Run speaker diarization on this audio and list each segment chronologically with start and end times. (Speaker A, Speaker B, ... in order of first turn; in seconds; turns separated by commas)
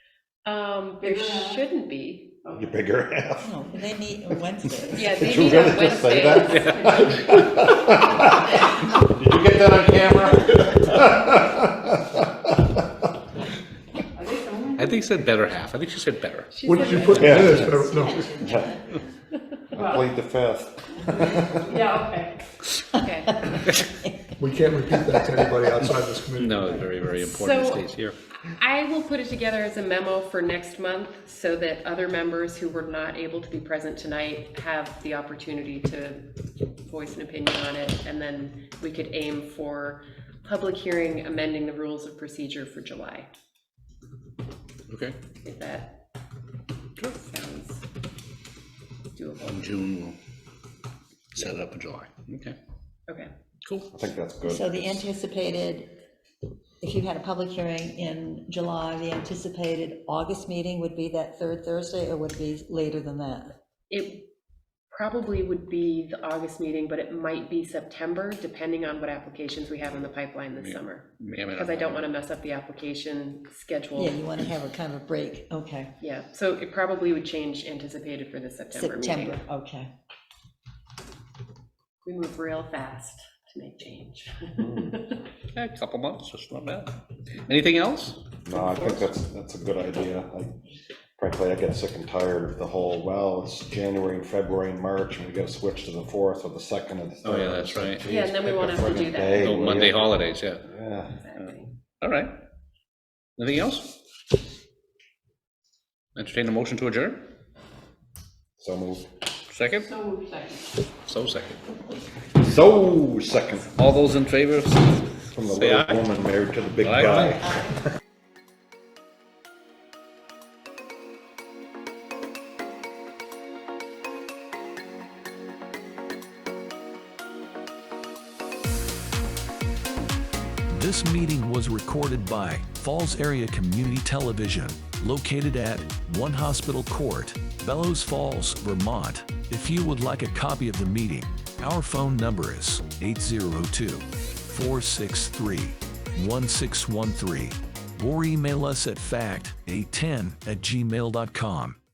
Speaker A: 0.4-2.4, Speaker B: 1.0-1.6, Speaker B: 2.5-2.7, Speaker C: 2.5-3.5, Speaker D: 3.4-5.9, Speaker A: 5.0-6.8, Speaker C: 5.1-12.8, Speaker B: 6.8-7.3, Speaker B: 14.2-14.9, Speaker E: 14.8-16.6, Speaker A: 16.5-18.1, Speaker F: 16.6-18.3, Speaker D: 17.0-19.0, Speaker C: 17.1-17.6, Speaker C: 18.4-18.7, Speaker C: 19.7-21.9, Speaker B: 21.7-22.3, Speaker D: 22.9-24.3, Speaker A: 23.0-23.4, Speaker F: 24.4-26.8, Speaker E: 26.4-28.2, Speaker A: 27.2-27.9, Speaker A: 28.4-43.3, Speaker E: 44.9-45.2, Speaker A: 45.4-46.0, Speaker A: 47.1-47.8, Speaker A: 49.1-49.8, Speaker E: 49.4-50.2, Speaker E: 51.3-52.5, Speaker C: 53.9-55.0, Speaker D: 54.4-55.9, Speaker D: 56.8-63.5, Speaker A: 63.9-64.2, Speaker A: 64.9-74.2, Speaker E: 70.6-72.1, Speaker D: 73.9-75.9, Speaker A: 76.0-79.4, Speaker D: 78.7-79.9, Speaker A: 82.0-85.2, Speaker C: 84.6-84.9, Speaker E: 85.5-86.9, Speaker E: 87.4-88.2, Speaker C: 88.4-90.5, Speaker A: 88.5-89.1, Speaker C: 91.2-100.1, Speaker E: 97.2-98.0, Speaker A: 98.0-100.2, Speaker E: 99.1-100.6, Speaker C: 100.6-101.1, Speaker A: 101.0-101.7, Speaker E: 101.4-102.3, Speaker E: 103.4-104.0, Speaker E: 106.2-107.2, Speaker C: 108.6-109.1, Speaker E: 109.5-110.1, Speaker B: 109.9-110.6, Speaker E: 111.0-111.6, Speaker C: 112.3-113.8, Speaker E: 113.7-116.1, Speaker C: 115.3-117.5, Speaker E: 116.8-117.3, Speaker G: 130.7-151.8